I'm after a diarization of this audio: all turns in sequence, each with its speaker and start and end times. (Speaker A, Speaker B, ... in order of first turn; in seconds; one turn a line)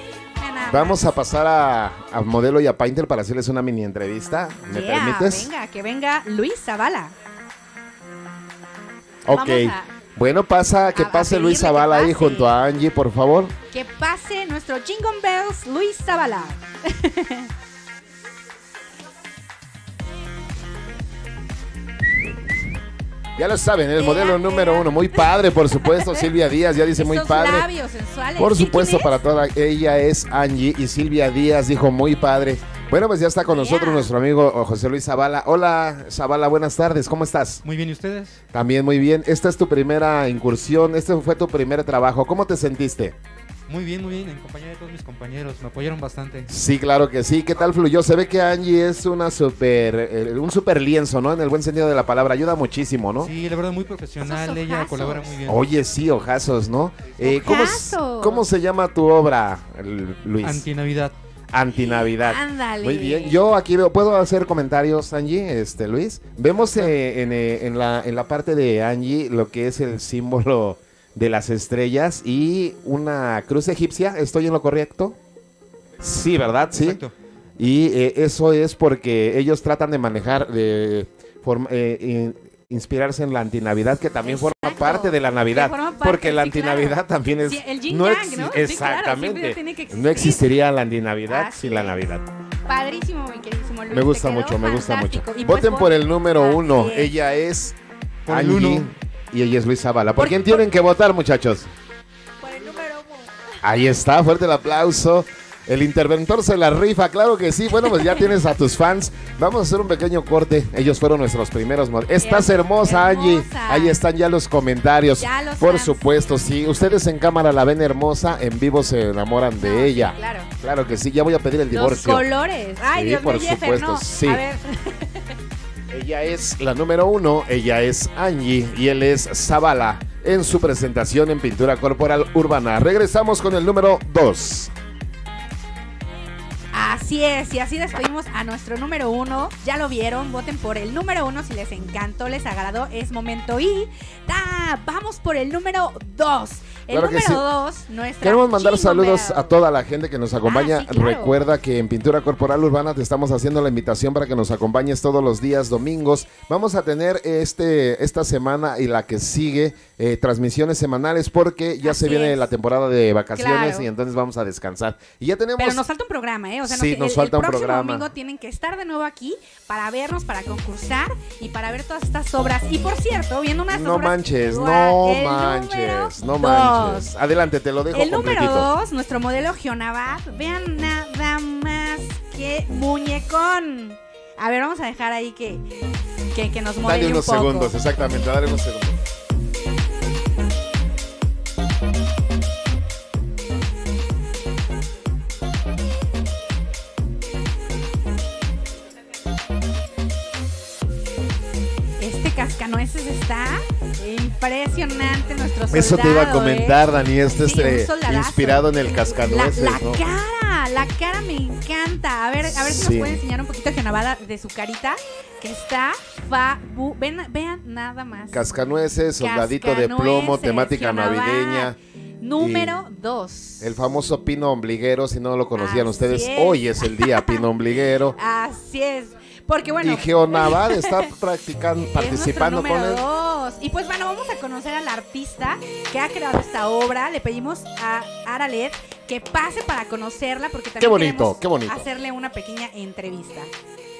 Speaker A: 0.3-1.1
Speaker B: 0.7-5.5
Speaker A: 4.7-7.1
Speaker B: 9.2-13.6
Speaker A: 9.3-9.9
Speaker A: 10.9-12.5
Speaker A: 13.7-17.5
Speaker B: 23.4-27.7
Speaker A: 24.0-25.3
Speaker A: 26.0-26.3
Speaker A: 26.9-29.2
Speaker B: 28.4-37.6
Speaker A: 33.5-34.1
Speaker C: 37.6-38.4
Speaker B: 38.5-43.2
Speaker C: 43.7-46.5
Speaker B: 46.5-53.3
Speaker C: 53.2-55.6
Speaker A: 54.2-55.4
Speaker B: 55.4-60.7
Speaker A: 57.2-58.4
Speaker C: 60.4-61.1
Speaker B: 61.5-75.2
Speaker A: 61.7-63.4
Speaker B: 76.0-77.0
Speaker C: 76.8-77.1
Speaker B: 77.6-92.3
Speaker A: 84.2-90.5
Speaker A: 91.2-92.0
Speaker A: 92.7-97.1
Speaker B: 93.9-101.7
Speaker C: 98.3-98.9
Speaker A: 100.2-100.6
Speaker A: 102.4-103.2
Speaker B: 103.6-122.3
Speaker A: 112.2-114.0
Speaker A: 115.2-116.0
Speaker A: 119.6-120.5
Speaker A: 121.7-125.2
Speaker B: 122.8-124.4
Speaker B: 125.9-134.7
Speaker A: 136.7-149.6
Speaker B: 146.9-147.4
Speaker B: 148.2-165.8
Speaker A: 150.4-151.3
Speaker A: 161.8-162.4
Speaker A: 163.3-163.8
Speaker A: 165.6-177.1
Speaker B: 166.6-168.1
Speaker B: 173.7-178.7
Speaker A: 177.9-185.6
Speaker A: 186.3-187.8
Speaker B: 186.8-189.0
Speaker A: 202.0-206.8
Speaker B: 205.7-210.0
Speaker A: 207.3-218.5
Speaker B: 212.4-213.2
Speaker B: 218.3-221.8
Speaker A: 219.2-223.7
Speaker B: 222.4-222.7
Speaker B: 223.6-228.2
Speaker A: 225.6-227.4
Speaker A: 228.1-231.1
Speaker B: 229.8-233.0
Speaker A: 231.9-243.5
Speaker B: 240.8-241.9